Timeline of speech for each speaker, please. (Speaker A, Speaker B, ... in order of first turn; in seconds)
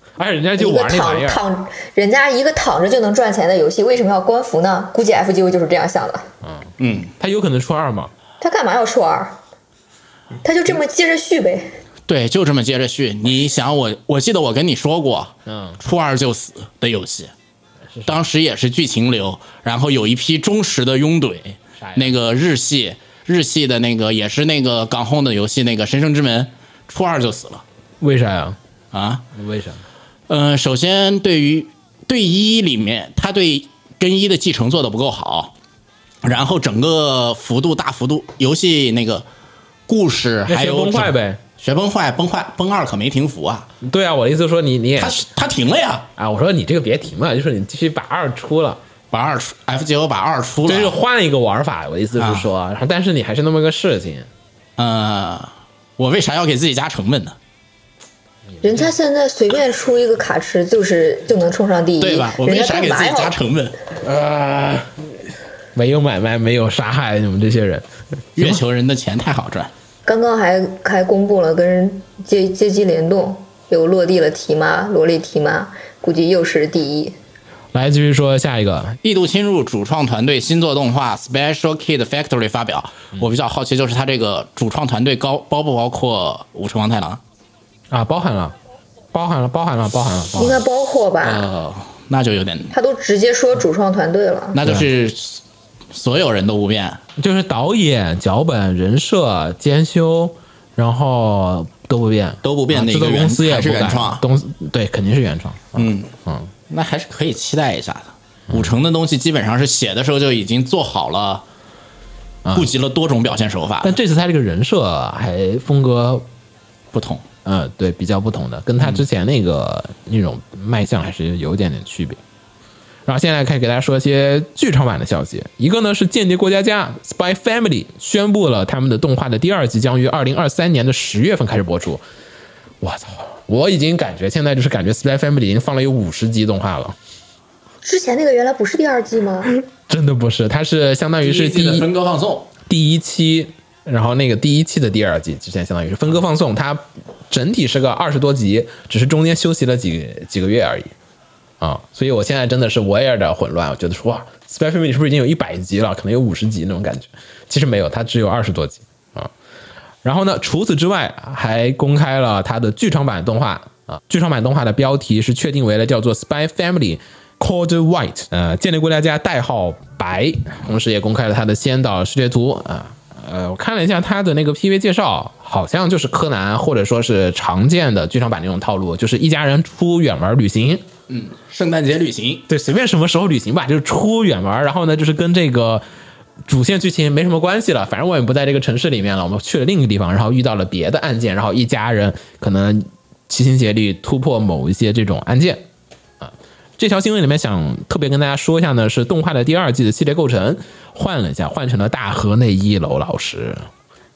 Speaker A: 0.2-1.4, 6.4-8.1, 15.5-15.8, 17.9-18.2, 21.8-22.1, 28.0-28.6, 29.3-29.8, 40.5-41.4, 43.8-45.3, 46.2-48.8, 50.6-54.3, 58.6-58.8, 64.0-65.1, 65.8-68.6, 77.7-79.0, 87.9-88.5, 89.1-90.6, 97.2-106.5, 112.5-112.7, 113.8-116.3, 117.5-122.2, 123.1-132.0, 132.8-137.0, 139.7-141.9, 142.7-150.9, 151.6-159.3, 160.0-180.9, 182.5-185.8, 186.5-195.7, 196.2-203.7
Speaker B: 0.6-6.3, 8.4-9.4, 10.4-11.7, 58.6-63.3, 70.1-77.2, 90.4-91.5, 92.7-94.6, 137.8-139.5
Speaker C: 6.8-7.1, 12.1-17.3, 18.1-27.6, 28.9-29.3, 30.3-35.5, 36.2-39.2, 39.9-43.7, 45.0-46.1, 49.1-51.0, 52.2-52.5, 54.8-57.4, 62.0-63.8, 68.4-69.7, 79.0-87.2, 91.2-92.7, 94.5-95.4, 95.9-97.0, 102.4-104.2, 105.8-106.1, 106.7-111.5, 112.5-114.0, 116.9-117.2, 141.2-142.5, 181.1-182.5